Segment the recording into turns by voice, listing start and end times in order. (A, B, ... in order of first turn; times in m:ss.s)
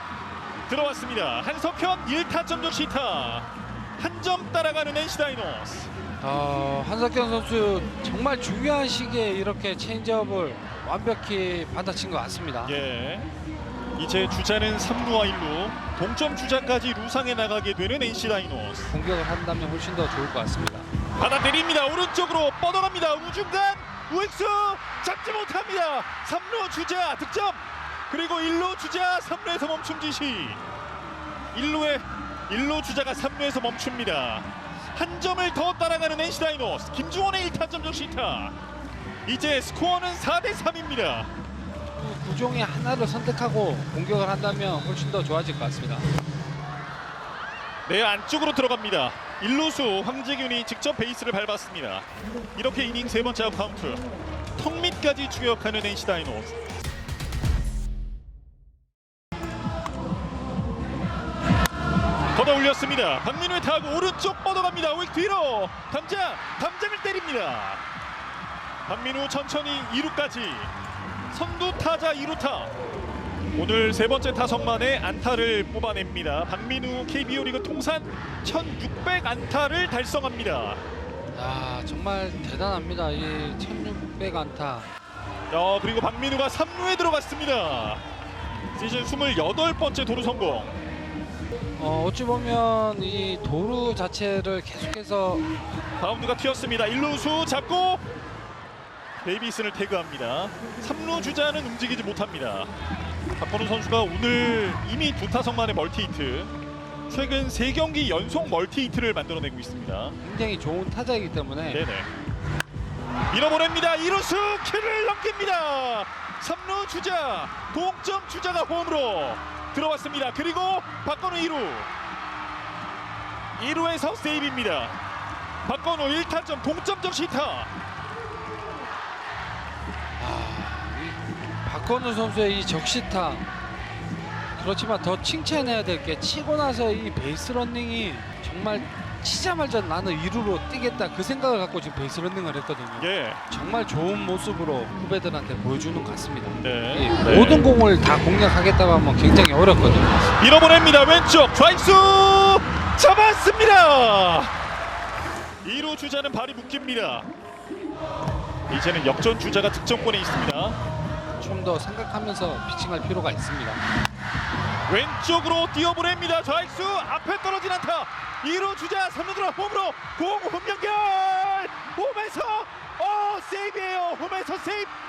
0:00.7-0:05.9 A
0:06.2-0:12.8 B
0:12.6-0:13.3 A
0:14.0-0:18.9 A
0:18.9-0:20.9 B
0:21.2-0:30.6 A
0:31.5-0:38.6 A
0:39.2-0:41.3 A
0:41.9-0:46.1 B
0:47.8-0:54.0 A
0:54.6-0:56.6 A
1:02.3-1:07.8 A
1:08.9-1:10.7 A
1:11.3-1:12.7 A
1:13.6-1:20.8 A
1:21.3-1:24.9 B
1:25.5-1:28.0 A
1:28.7-1:30.8 A
1:31.8-1:35.4 B
1:36.0-1:38.0 A
1:39.2-1:42.7 A
1:43.4-1:46.5 A
1:47.1-1:50.2 A
1:50.2-1:51.8 B
1:51.7-1:52.1 A
1:53.3-2:01.9 A
2:03.6-2:05.0 A
2:05.6-2:07.7 A
2:10.2-2:13.5 B
2:14.6-2:30.2 B
2:23.0-2:23.4 A
2:26.5-2:27.7 A
2:30.4-2:34.5 A
2:35.6-2:37.3 A
2:38.7-2:40.8 A
2:41.4-2:43.8 B
2:44.9-2:54.9 A